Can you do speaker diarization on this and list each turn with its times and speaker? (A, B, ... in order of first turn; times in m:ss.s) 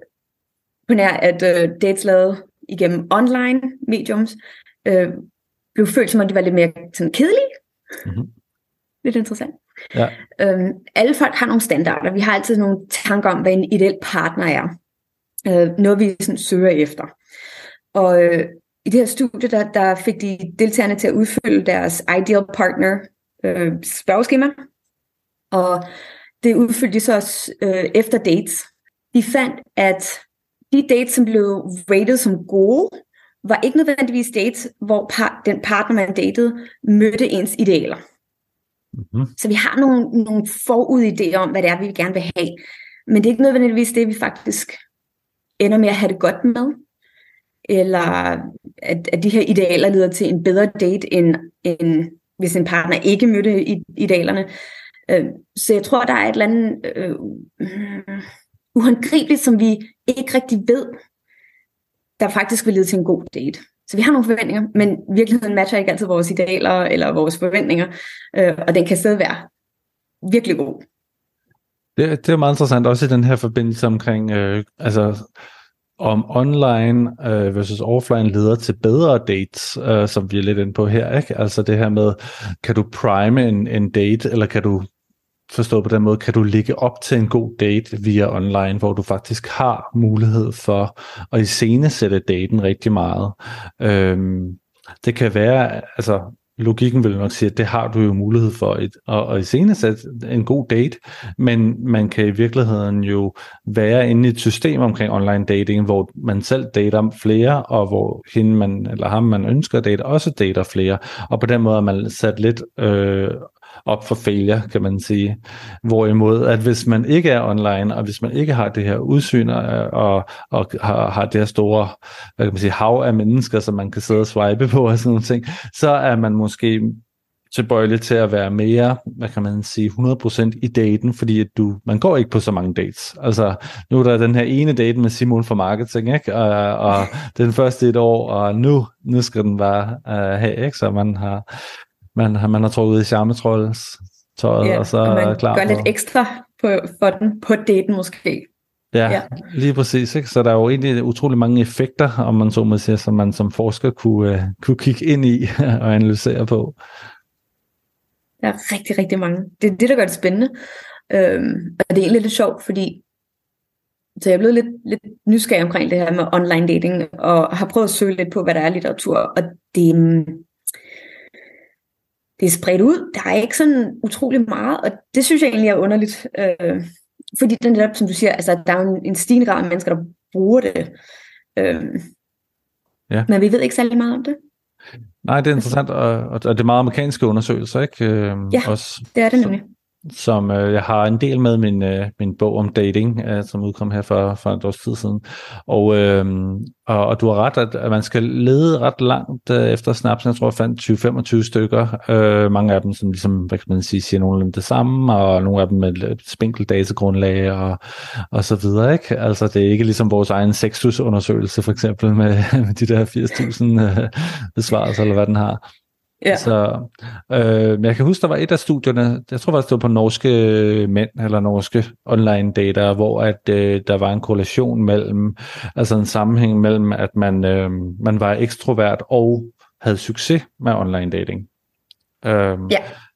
0:00.9-0:05.2 A
0:05.7-0:07.5 A
0:08.0-0:08.3 B
0:09.0-0:09.6 A
0:09.9-0:10.2 B
0:10.4-0:14.7 A
0:15.4-0:17.1 A
0:17.9-0:24.5 A
0:25.5-0:25.8 A
0:26.4-0:38.0 A
0:39.0-0:39.3 B
0:39.4-0:44.8 A
0:45.6-0:46.8 A
0:47.7-0:54.5 A
0:55.1-1:00.9 A
1:02.2-1:09.5 A
1:10.2-1:10.8 A
1:12.0-1:15.2 B
1:16.0-1:24.9 B
1:25.5-2:21.4 B
2:22.1-2:25.9 B
2:24.6-2:28.5 A
2:28.9-2:36.8 B
2:38.4-2:40.5 A
2:41.1-2:43.0 A
2:44.2-2:50.4 A
2:52.4-2:56.8 A
2:57.4-3:00.9 A
3:01.6-3:02.0 A
3:03.3-3:04.4 A
3:05.2-3:09.5 B
3:08.5-3:09.7 A
3:10.1-3:27.8 B
3:28.3-3:35.6 B
3:36.2-3:36.5 A
3:36.3-3:51.5 B
3:52.2-3:52.8 B